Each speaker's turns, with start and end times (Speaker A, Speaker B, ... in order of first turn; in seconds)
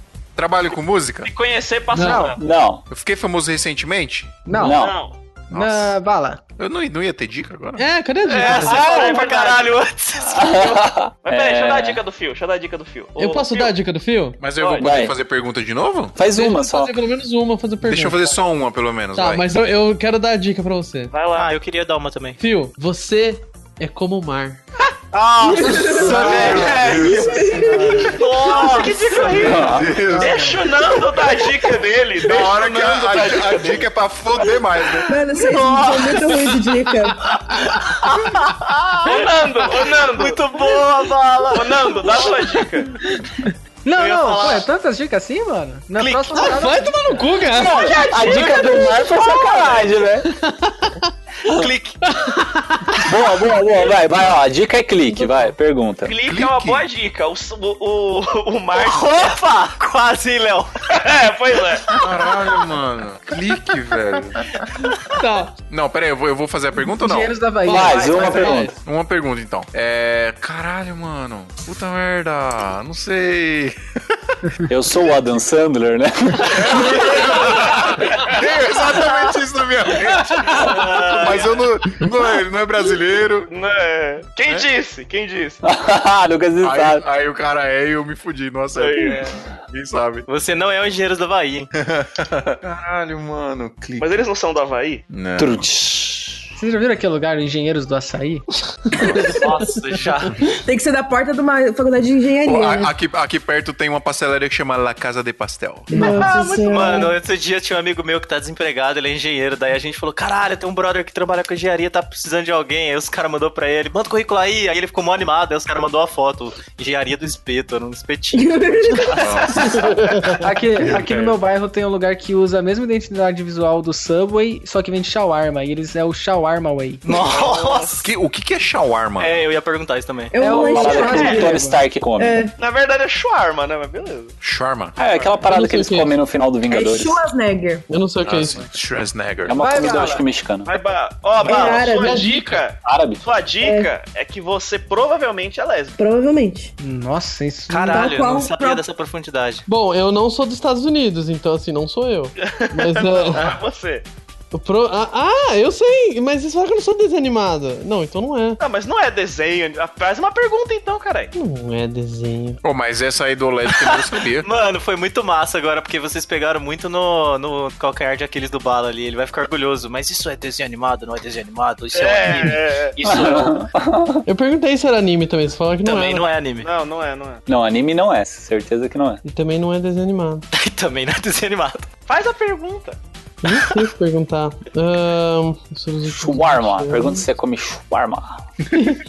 Speaker A: 0.4-1.3, 2.9-4.5, 5.5-5.9, 6.6-7.9, 14.4-16.2, 17.8-19.5, 26.0-28.1, 29.5-30.6, 32.2-36.4, 56.2-56.9, 61.9-64.5, 65.7-67.4, 68.7-74.2, 76.4-83.5, 86.6-90.3, 91.7-94.1, 95.1-95.7, 102.4-105.9, 119.1-121.4, 128.0-129.4, 134.4-135.0, 138.2-139.7, 162.6-164.5
Speaker B: 1.2-2.4, 4.6-5.2, 8.4-9.7, 10.5-13.7, 14.6-14.9, 21.1-21.5, 26.2-27.3, 28.0-33.9, 39.0-40.8, 41.5-42.9, 47.8-49.1, 56.0-59.3, 60.9-62.0, 77.1-77.6, 80.6-81.3, 83.5-85.6, 88.7-89.3, 94.0-95.0, 127.1-128.0, 132.6-134.3, 140.6-146.0, 152.4-154.1, 158.6-161.3, 171.9-173.0, 176.6-177.4, 182.1-183.0
Speaker C: 1.9-2.3, 7.8-9.0, 13.2-14.4, 16.3-18.2, 19.1-21.1, 22.4-24.6, 26.0-26.6, 46.3-47.9, 50.2-51.1, 52.0-53.1, 65.1-65.5, 67.7-68.7, 120.0-120.3, 135.5-136.1, 137.9-138.6, 142.0-142.6, 149.7-153.5, 154.5-158.6, 161.3-162.6, 174.2-176.2, 179.2-180.4, 183.4-187.2
Speaker D: 2.0-2.4, 4.5-4.8, 5.5-6.4, 26.0-28.2, 29.3-30.7, 43.8-47.2, 66.8-68.6, 96.6-98.5, 120.4-127.0, 130.3-131.8, 139.6-140.2, 146.8-148.1
Speaker E: 2.4-2.9, 4.5-5.0, 10.3-12.0, 14.8-15.2, 16.1-16.9, 29.4-29.9, 47.5-50.3, 53.0-56.2, 67.7-68.8, 74.7-76.7, 85.6-87.0, 95.4-96.4, 130.6-132.4, 135.0-137.2, 139.4-140.7, 142.8-143.2, 173.0-174.2, 177.5-179.2, 186.1-188.4
Speaker F: 8.2-10.7, 21.3-22.4, 25.1-27.1, 28.3-29.3, 37.7-42.4, 43.9-44.7, 46.0-46.6, 48.0-48.4, 51.5-52.1, 58.7-60.8, 76.8-77.7, 78.8-79.4, 80.4-81.6, 90.3-91.7, 99.2-100.4, 106.2-119.7, 127.0-128.1, 129.2-130.3, 141.5-141.8, 147.7-149.6, 163.7-173.7, 175.8-176.7, 180.5-181.9
Speaker G: 25.4-29.4, 35.1-37.3, 99.0-99.6, 100.5-102.9, 105.9-107.1, 118.3-119.9, 130.3-131.7, 132.2-132.5, 136.7-137.8, 141.4-142.3, 143.6-143.9, 146.0-146.7, 147.9-148.8